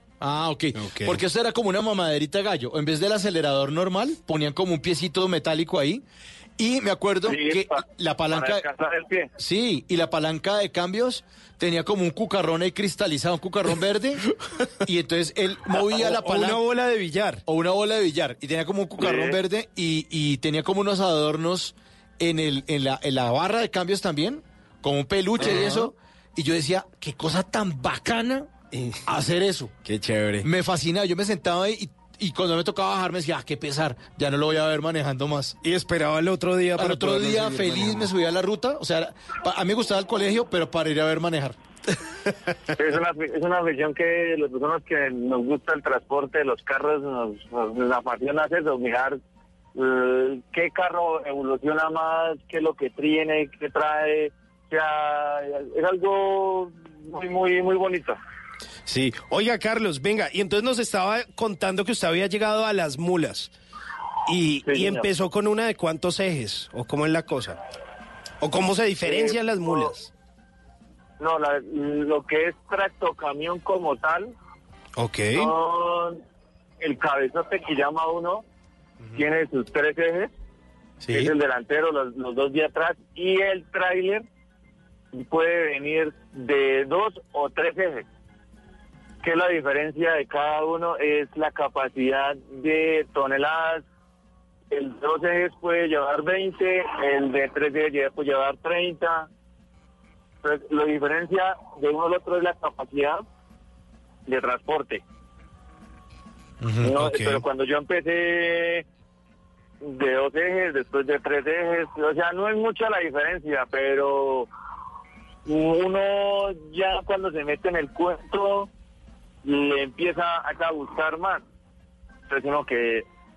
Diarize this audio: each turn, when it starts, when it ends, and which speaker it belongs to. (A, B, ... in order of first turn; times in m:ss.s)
0:00.2-0:06.0 A
0:00.8-0:01.2 B
0:06.6-0:08.6 A
0:07.2-0:09.3 C
0:09.4-0:14.2 A
0:14.8-0:16.6 A
0:15.7-0:17.4 B
0:17.5-0:28.5 A
0:19.0-0:19.4 C
0:25.4-0:25.9 B
0:28.7-0:29.0 B
0:29.1-0:29.7 A
0:29.8-0:30.5 B
0:30.4-0:35.6 A
0:35.6-0:38.1 B
0:36.8-0:41.6 A
0:42.8-0:49.2 C
0:49.8-0:58.2 C
0:58.9-1:03.5 B
1:04.3-1:07.6 B
1:04.6-1:05.1 C
1:08.4-1:10.1 B
1:09.0-1:09.9 C
1:11.2-1:14.3 C
1:15.0-1:15.5 B
1:15.4-1:16.2 C
1:16.8-1:18.4 C
1:19.2-1:20.3 C
1:21.0-1:21.3 A
1:21.1-1:24.2 C
1:25.1-1:28.0 C
1:29.2-1:33.8 C
1:34.7-1:39.3 C
1:40.4-1:43.2 C
1:44.3-1:45.0 C
1:46.6-1:47.4 A
1:46.8-1:48.8 C
1:49.8-1:54.5 C
1:55.5-1:58.7 C
1:59.4-2:01.4 C
2:02.3-2:03.0 C